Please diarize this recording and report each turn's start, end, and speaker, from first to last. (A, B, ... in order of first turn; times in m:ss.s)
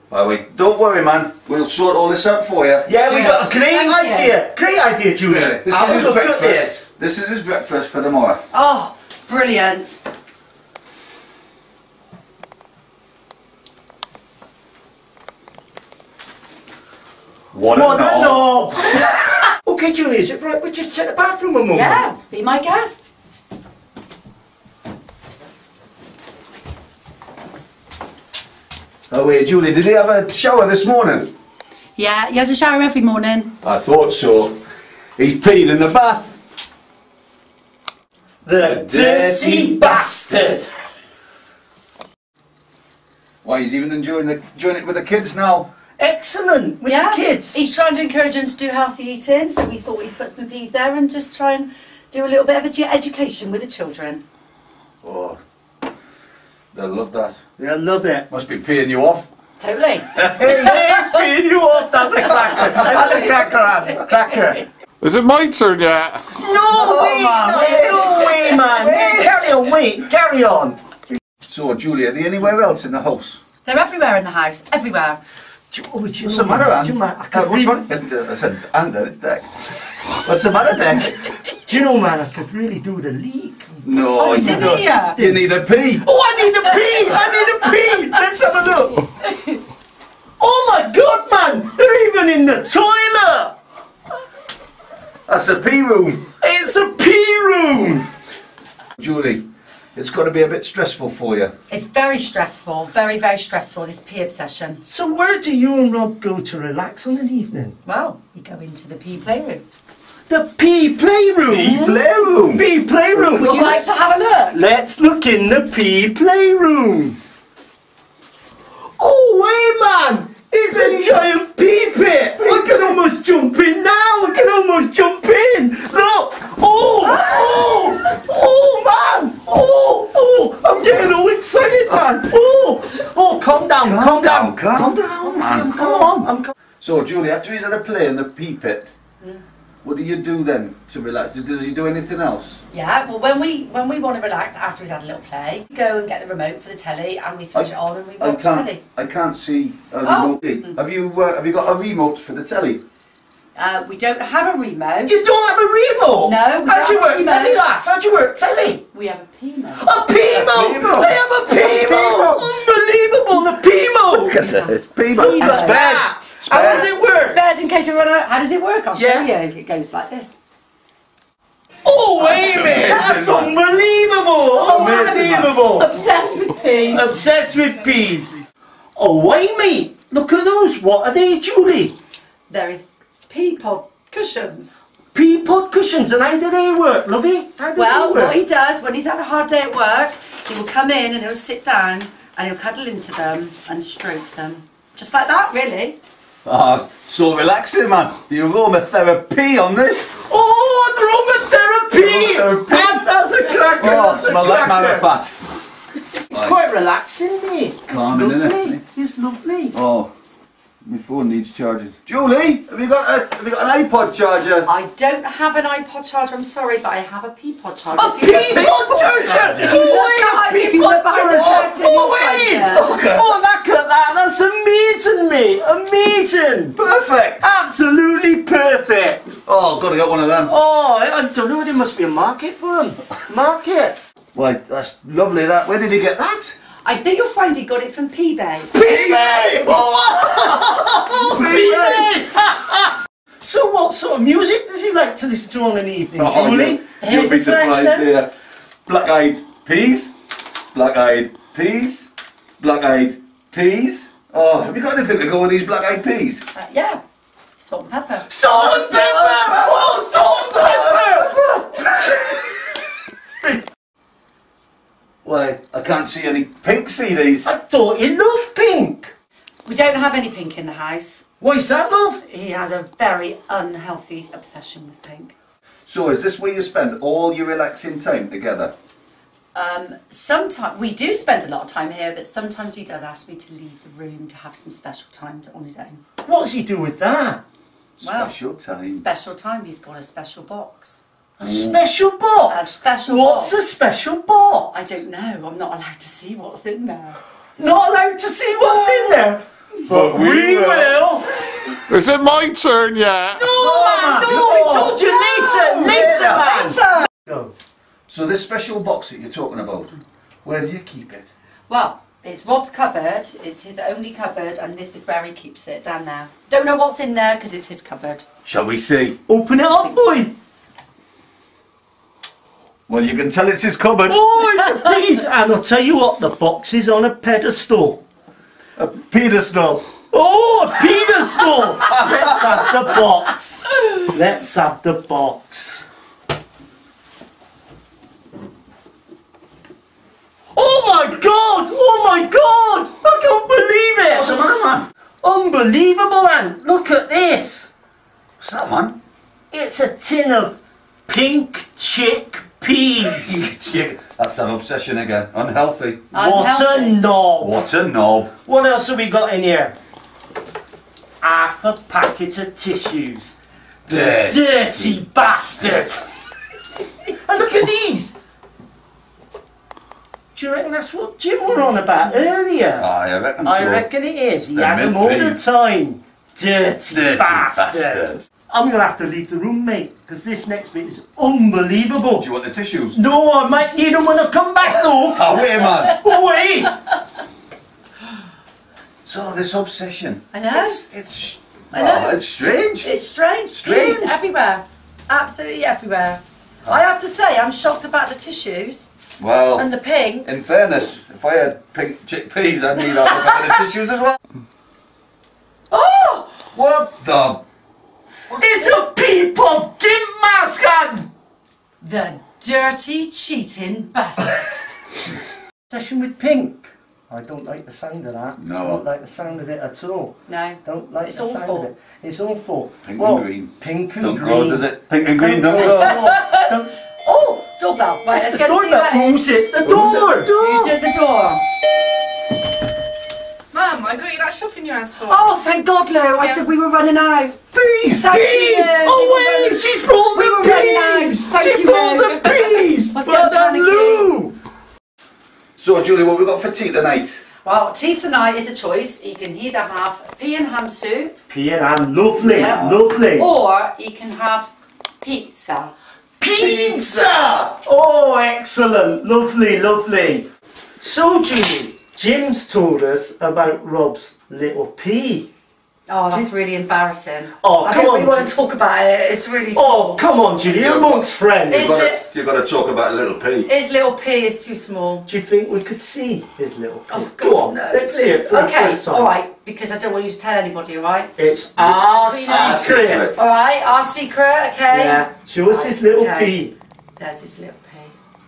0:00.1-0:02.9 A
0:02.8-0:06.9 B
0:03.1-0:04.4 C
0:05.2-0:08.4 A
0:08.5-0:10.0 C
0:17.5-0:19.2 A
0:17.7-0:19.1 B
0:19.6-0:22.0 B
0:21.7-0:23.1 C
0:29.1-0:31.3 A
0:32.0-0:33.5 C
0:33.6-0:34.6 A
0:35.2-0:36.4 A
0:38.4-0:40.7 B
0:38.6-0:40.6 A
0:43.4-0:45.7 A
0:46.0-0:47.6 B
0:46.8-0:54.2 C
0:55.0-0:55.4 A
0:56.7-0:57.4 A
0:57.6-0:58.3 B
0:58.3-0:59.3 A
0:59.6-1:00.1 C
1:00.2-1:00.9 A
1:00.2-1:04.6 B
1:02.6-1:03.3 A
1:02.8-1:04.0 C
1:05.0-1:06.3 D
1:06.4-1:10.8 B
1:06.4-1:09.7 A
1:11.4-1:13.4 A
1:13.6-1:15.2 C
1:15.7-1:17.8 B
1:16.2-1:21.2 A
1:21.7-1:25.5 B
1:23.8-1:26.0 A
1:24.1-1:25.1 C
1:26.0-1:29.0 B
1:30.4-1:33.6 B
1:35.3-1:36.2 A
1:36.4-1:38.1 B
1:39.0-1:41.5 A
1:41.7-1:44.8 C
1:44.8-1:47.8 B
1:47.8-1:49.6 C
1:50.3-1:53.9 B
1:51.5-1:53.7 A
1:53.3-1:54.6 C
1:54.5-1:57.2 B
1:59.0-2:16.5 B
2:00.7-2:01.3 A
2:02.4-2:03.0 A
2:07.0-2:07.8 C
2:13.8-2:18.9 A
2:19.8-2:22.6 A
2:22.7-2:28.8 C
2:27.5-2:32.8 A
2:30.0-2:30.8 C
2:33.6-2:35.1 C
2:35.0-2:38.8 B
2:36.2-2:37.7 C
2:38.9-2:39.9 C
2:39.8-2:44.4 B
2:40.3-2:42.6 A
2:44.1-2:46.9 A
2:44.4-2:50.4 C
2:45.2-2:47.4 B
2:48.9-2:49.3 B
2:51.8-2:56.1 B
2:52.2-2:53.6 A
2:54.5-2:57.1 C
2:54.8-2:55.4 A
2:56.9-2:58.4 B
2:59.0-3:02.0 B
3:02.5-3:04.8 C
3:05.1-3:08.4 B
3:07.7-3:16.0 C
3:16.4-3:20.2 A
3:20.3-3:25.0 B
3:21.9-3:23.0 A
3:23.8-3:25.5 A
3:26.3-3:29.8 B
3:26.3-3:26.6 A
3:27.9-3:28.8 A
3:29.7-3:30.1 A
3:30.8-3:34.7 A
3:34.6-3:38.6 C
3:38.0-3:46.8 B
3:38.3-3:40.0 A
3:39.6-3:42.9 C
3:42.6-3:43.3 A
3:46.7-3:47.4 A
3:47.4-3:49.4 B
3:49.4-3:50.5 A
3:50.5-3:54.0 B
3:54.3-3:56.6 A
3:56.8-3:58.7 C
3:58.7-4:06.8 B
3:58.8-4:02.1 A
4:06.2-4:08.3 A
4:07.0-4:08.1 C
4:08.8-4:10.1 A
4:10.7-4:16.4 A
4:16.5-4:17.0 C
4:17.6-4:18.3 C
4:18.3-4:22.6 B
4:18.4-4:22.2 A
4:23.4-4:23.6 B
4:25.2-4:27.5 A
4:27.4-4:29.1 B
4:29.6-4:31.2 C
4:31.4-4:32.2 B
4:32.3-4:35.3 C
4:35.9-4:38.7 A
4:39.5-4:46.0 C
4:46.2-4:47.4 B
4:48.0-4:49.0 A
4:48.0-4:48.3 C
4:48.9-4:51.0 C
4:51.4-4:54.8 B
4:51.4-4:51.8 A
4:52.5-4:53.5 C
4:54.7-4:57.2 C
4:57.6-5:01.3 B
4:58.7-4:59.1 C
4:59.9-5:01.0 A
5:01.9-5:03.5 D
5:03.4-5:07.5 B
5:03.4-5:06.5 A
5:05.1-5:07.1 C
5:08.1-5:11.3 A
5:11.7-5:18.3 C
5:18.4-5:19.2 A
5:19.3-5:20.3 B
5:19.7-5:20.0 C
5:22.9-5:24.2 A
5:24.1-5:28.0 B
5:28.8-5:29.9 A
5:30.1-5:35.8 B
5:31.9-5:32.7 A
5:40.5-5:44.4 B
5:44.1-5:44.9 A
5:45.2-5:47.7 B
5:48.4-5:49.0 A
5:49.5-5:53.5 B
5:53.0-5:56.1 A
5:56.1-5:57.0 C
5:56.1-5:57.6 B
5:57.4-5:58.3 A
5:58.4-5:59.8 B
6:01.2-6:06.0 B
6:03.9-6:05.0 A
6:07.2-6:08.1 B
6:10.3-6:12.8 B
6:12.8-6:13.8 A
6:13.4-6:22.2 B
6:14.5-6:15.4 A
6:16.9-6:18.2 A
6:22.2-6:23.0 A
6:22.9-6:26.7 B
6:24.6-6:26.0 A
6:29.0-6:32.9 A
6:30.3-6:30.8 C
6:31.7-6:32.2 C
6:32.8-6:38.9 C
6:33.5-6:34.2 A
6:39.2-6:39.7 A
6:39.6-6:40.3 C
6:40.2-6:44.2 A
6:42.8-6:43.5 C
6:45.7-6:46.3 C
6:46.5-6:47.4 A
6:48.4-6:51.1 B
6:51.8-6:54.5 C
6:55.7-7:06.7 B
6:58.4-6:58.8 A
7:00.3-7:01.7 C
7:02.8-7:06.1 A
7:05.5-7:06.5 C
7:07.0-7:09.3 C
7:08.1-7:10.3 B
7:09.6-7:10.8 A
7:10.3-7:11.4 C
7:13.5-7:15.3 E
7:15.0-7:17.4 C
7:16.2-7:16.4 E
7:17.5-7:18.2 A
7:18.0-7:24.1 C
7:18.1-7:24.3 B
7:25.6-7:27.2 A
7:27.4-7:31.2 C
7:31.3-7:33.3 B
7:32.2-7:34.5 C
7:32.3-7:32.8 A
7:35.0-7:35.7 C
7:36.2-7:40.3 B
7:36.3-7:37.5 A
7:40.8-7:45.3 B
7:45.9-7:50.0 C
7:47.4-7:48.3 B
7:49.6-7:51.8 B
7:50.5-7:53.5 A
7:51.5-7:52.0 C
7:53.4-7:55.1 C
7:55.1-7:59.1 B
7:56.9-8:01.1 C
8:01.2-8:03.2 B
8:01.6-8:03.2 A
8:01.9-8:06.3 C
8:04.7-8:06.5 B
8:07.0-8:07.9 C